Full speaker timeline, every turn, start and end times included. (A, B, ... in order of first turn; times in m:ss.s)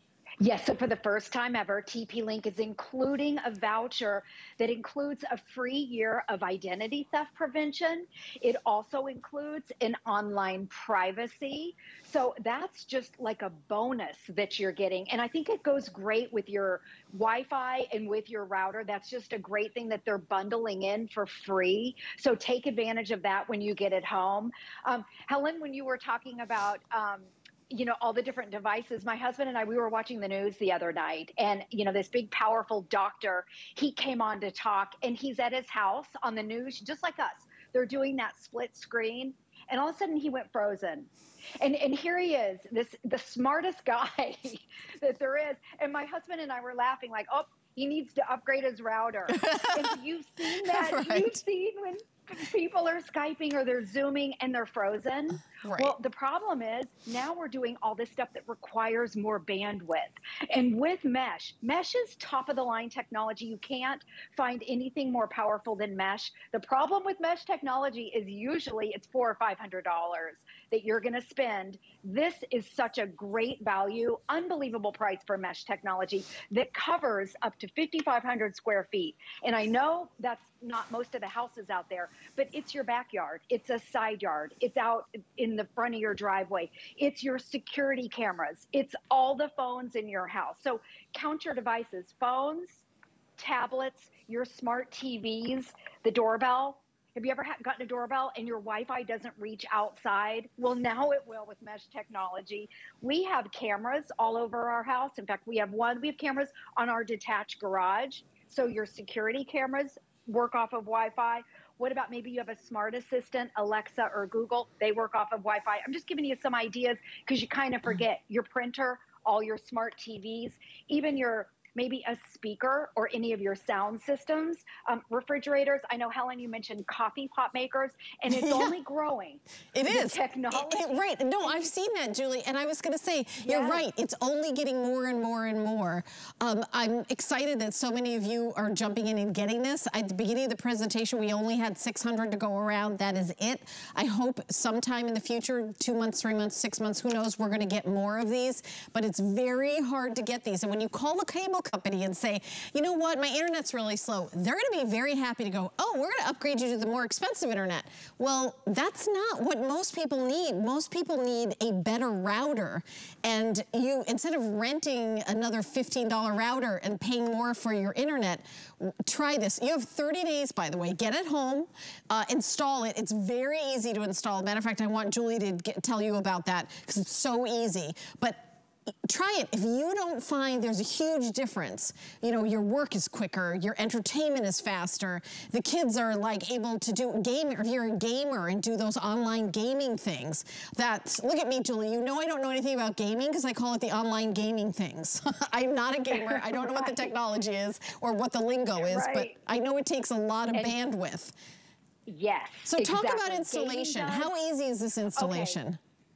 0:00.4-1:32.8 A
0:49.3-0:51.4 B
0:55.6-0:56.0 B
1:33.4-2:11.7 A
2:08.3-2:08.8 B
2:09.7-2:58.5 B
2:13.4-2:13.8 A
2:59.0-3:21.4 B
3:16.1-3:17.1 A
3:18.8-3:19.4 A
3:22.1-3:24.3 A
3:22.7-3:25.8 B
3:25.1-3:25.6 A